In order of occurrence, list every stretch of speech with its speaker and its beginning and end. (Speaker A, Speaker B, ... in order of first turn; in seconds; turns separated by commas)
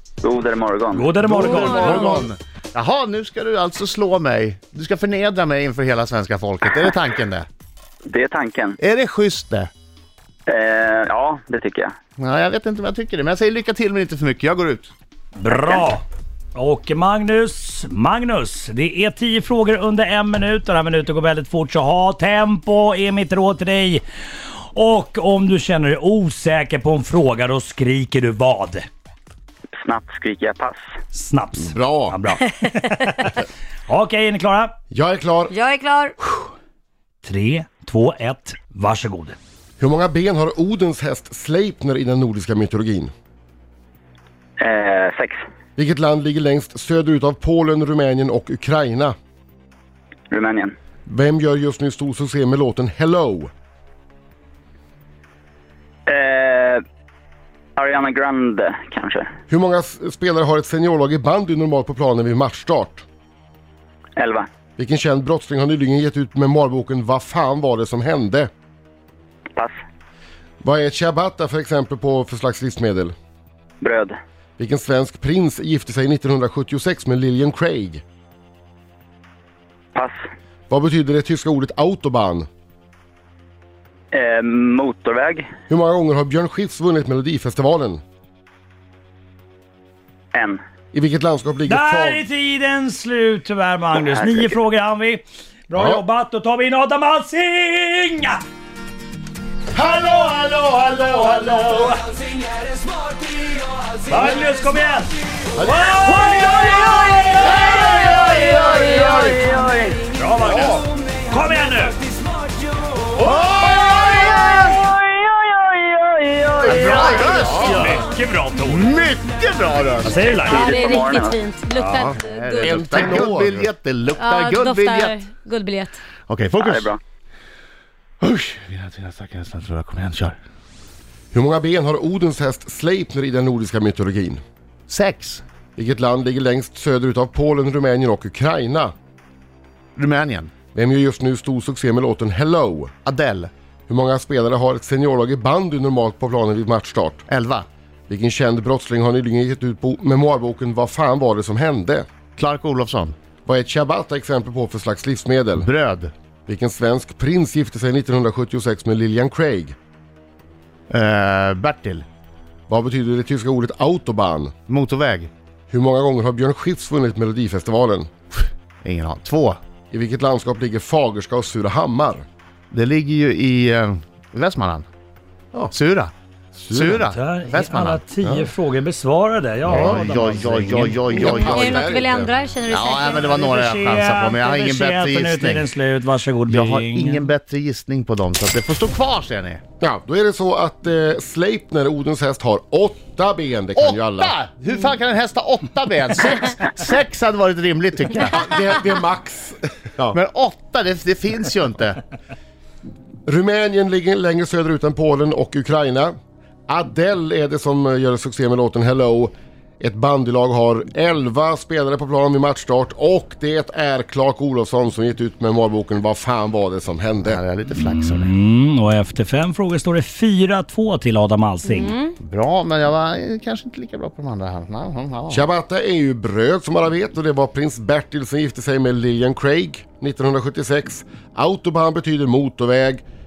Speaker A: 0.2-1.1, Speaker B: 0.9-2.2, Speaker C: 1.2-7.5, Speaker A: 8.1-8.8, Speaker C: 8.8-9.7, Speaker A: 10.5-11.9, Speaker C: 12.2-14.9, Speaker B: 15.3-16.0, Speaker A: 15.5-15.8, Speaker B: 16.5-24.0, Speaker B: 24.7-28.9, Speaker A: 29.7-30.8, Speaker B: 31.1-34.7, Speaker D: 31.7-32.2, Speaker D: 34.9-35.5, Speaker E: 35.5-36.1, Speaker B: 37.2-39.4, Speaker D: 39.8-43.1, Speaker A: 44.6-45.4, Speaker D: 45.8-49.1, Speaker A: 50.3-50.7, Speaker D: 51.1-53.5, Speaker A: 56.1-56.8, Speaker A: 57.8-59.3, Speaker D: 59.5-63.0, Speaker A: 64.2-64.5, Speaker D: 64.8-68.5, Speaker D: 70.6-73.1, Speaker A: 73.8-74.1, Speaker D: 74.6-78.0, Speaker D: 80.7-82.5, Speaker A: 84.1-85.5, Speaker D: 85.7-88.0, Speaker A: 90.3-90.6, Speaker D: 90.9-92.2, Speaker B: 91.7-98.4, Speaker A: 93.9-94.5, Speaker D: 95.7-96.0, Speaker B: 99.8-102.1, Speaker B: 104.0-108.2, Speaker C: 107.4-109.4, Speaker A: 108.2-110.0, Speaker B: 110.1-112.0, Speaker C: 110.4-110.8, Speaker C: 113.2-114.8, Speaker A: 114.1-117.5, Speaker C: 116.7-118.0, Speaker B: 116.8-118.9, Speaker C: 118.7-120.4, Speaker B: 120.0-120.8, Speaker A: 120.5-121.4, Speaker E: 120.5-122.7, Speaker B: 121.7-122.2, Speaker C: 122.0-125.2, Speaker D: 122.6-123.7, Speaker E: 124.2-126.0, Speaker C: 126.3-126.9, Speaker A: 126.6-127.0, Speaker C: 128.2-130.4, Speaker D: 131.3-134.4, Speaker C: 134.9-135.4, Speaker D: 135.8-138.9, Speaker C: 139.9-140.5, Speaker D: 140.7-142.9, Speaker C: 143.0-143.5, Speaker D: 143.9-147.2, Speaker C: 147.3-147.7, Speaker D: 148.1-152.1, Speaker C: 152.3-153.1, Speaker D: 153.4-155.7, Speaker C: 155.6-156.1, Speaker D: 156.5-159.7, Speaker C: 160.9-162.1, Speaker D: 162.7-164.5, Speaker C: 164.7-165.3, Speaker D: 165.7-168.1, Speaker C: 168.8-169.6, Speaker D: 169.9-172.2, Speaker C: 172.7-174.9, Speaker C: 175.7-176.1, Speaker D: 176.6-177.0, Speaker C: 176.7-178.0, Speaker B: 176.8-181.3, Speaker D: 178.2-178.5, Speaker C: 179.7-181.8, Speaker D: 179.7-180.1, Speaker D: 181.1-182.3, Speaker E: 181.4-183.3, Speaker C: 182.7-185.7, Speaker B: 183.1-187.3, Speaker C: 186.5-189.6, Speaker D: 189.8-194.3, Speaker C: 193.8-198.4, Speaker D: 198.2-200.2, Speaker C: 200.1-202.0, Speaker D: 203.2-206.1, Speaker D: 206.7-217.4, Speaker C: 217.2-218.3, Speaker B: 217.8-221.9, Speaker E: 221.7-222.1, Speaker C: 222.2-225.4, Speaker D: 225.3-233.0